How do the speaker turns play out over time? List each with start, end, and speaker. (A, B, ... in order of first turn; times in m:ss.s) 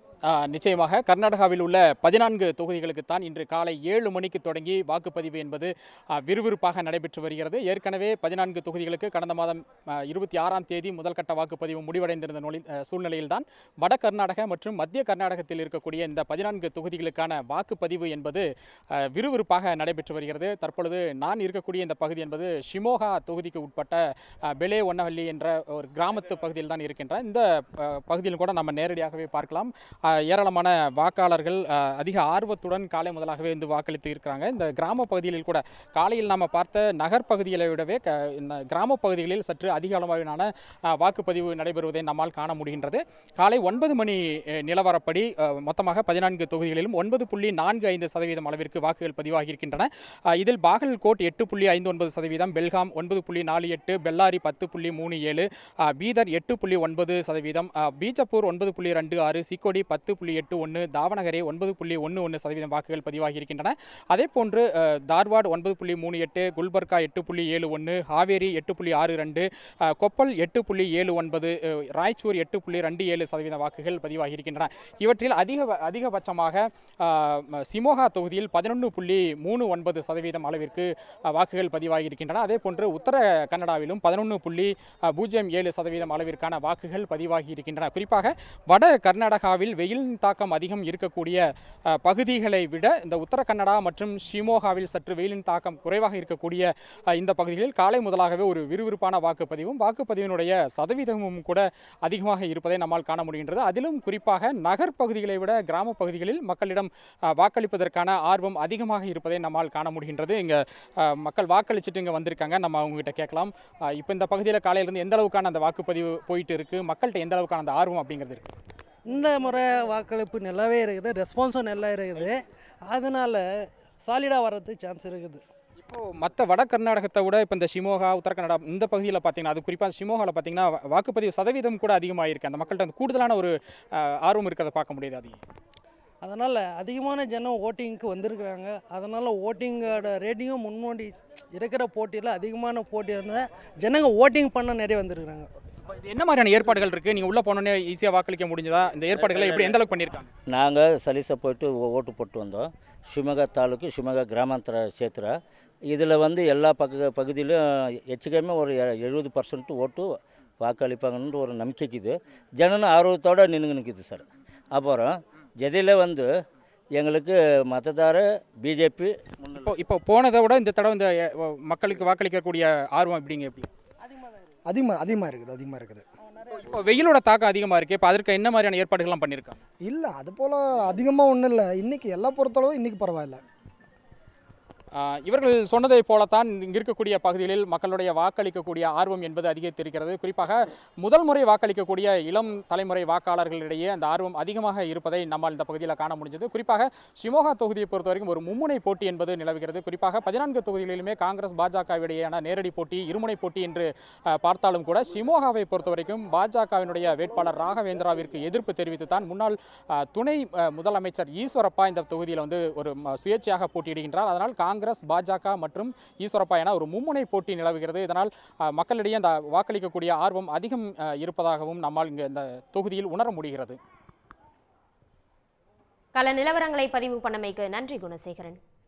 0:00.3-1:58.5 A
1:59.1-2:03.4 B
2:04.0-2:05.4 B
2:05.8-2:15.4 A
2:16.2-2:25.5 B
2:26.0-2:30.3 A
2:29.3-2:29.8 C
2:30.5-2:35.4 C
2:35.9-2:46.3 C
2:47.0-2:49.2 C
2:49.5-2:53.7 A
2:54.7-2:56.0 D
2:56.7-2:59.6 A
2:59.8-3:03.4 D
3:05.0-3:43.8 A
3:46.2-3:48.6 E